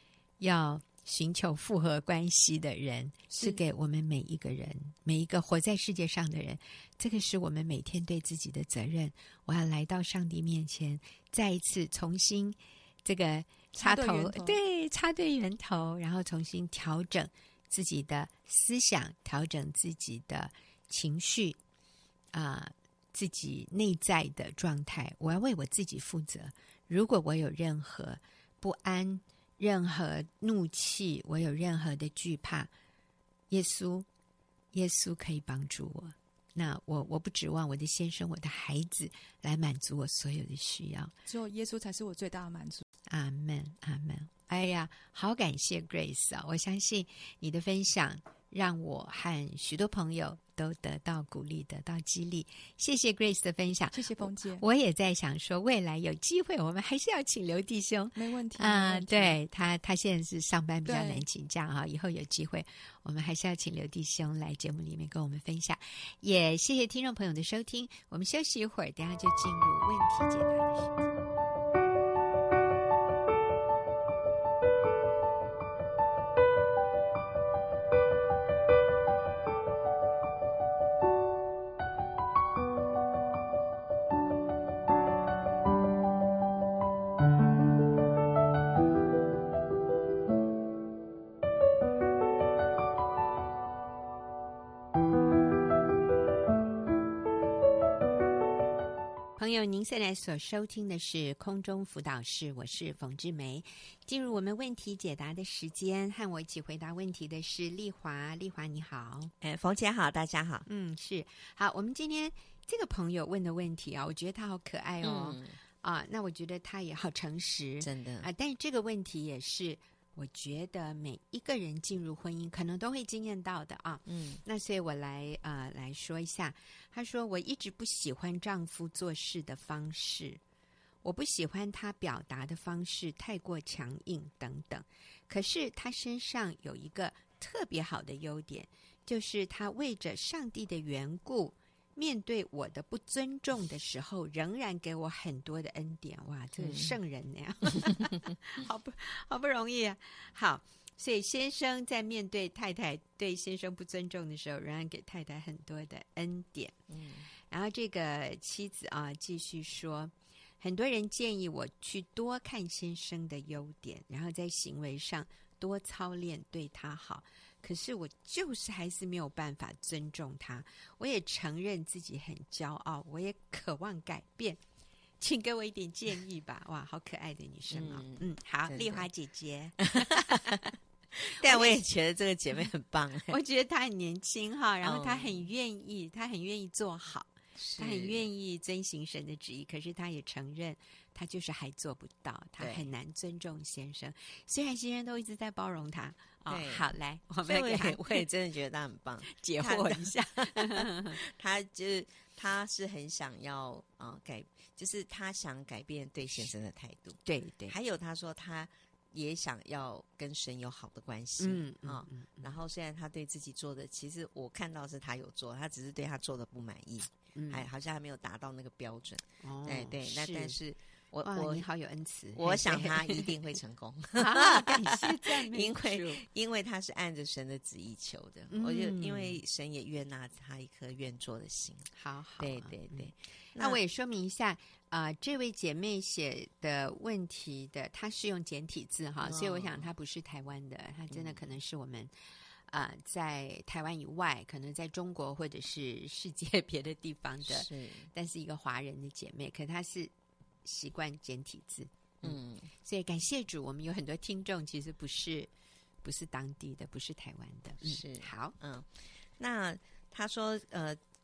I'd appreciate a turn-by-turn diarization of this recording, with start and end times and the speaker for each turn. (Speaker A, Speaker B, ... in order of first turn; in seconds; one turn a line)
Speaker A: 0.4-21.6
Speaker B: 3.3-3.6
Speaker B: 13.8-14.6
Speaker A: 22.3-32.7
Speaker A: 33.5-34.1
Speaker A: 34.7-41.1
Speaker B: 41.3-42.8
Speaker A: 43.1-71.2
Speaker B: 53.9-54.6
Speaker B: 58.2-59.4
Speaker B: 60.9-61.3
Speaker A: 99.4-109.3
Speaker C: 109.4-110.7
Speaker A: 110.7-130.4
Speaker C: 115.0-115.6
Speaker C: 117.8-118.3
Speaker C: 124.1-124.4
Speaker A: 131.0-156.8
Speaker C: 146.6-147.0
Speaker C: 156.9-157.3
Speaker A: 157.4-174.6
Speaker A: 175.2-180.7
Speaker C: 177.7-179.1
Speaker C: 180.0-180.6
Speaker C: 181.2-183.4
Speaker A: 181.4-181.8
Speaker A: 183.3-198.3
Speaker C: 184.8-185.4
Speaker C: 187.6-188.3
Speaker C: 192.6-192.9
Speaker C: 196.5-196.9
Speaker C: 197.4-221.7
Speaker A: 199.3-201.2
Speaker A: 207.2-207.8
Speaker A: 211.4-212.6
Speaker A: 217.3-217.7
Speaker A: 219.4-220.6
Speaker A: 221.2-223.6
Speaker C: 222.3-231.9
Speaker A: 224.2-226.2
Speaker A: 228.5-229.4
Speaker A: 231.9-242.1
Speaker C: 232.4-233.8
Speaker C: 239.2-239.9
Speaker C: 241.1-241.4
Speaker A: 242.7-250.1
Speaker C: 247.5-248.1
Speaker A: 250.6-255.5
Speaker C: 252.2-252.7
Speaker A: 256.0-258.6
Speaker C: 257.8-261.0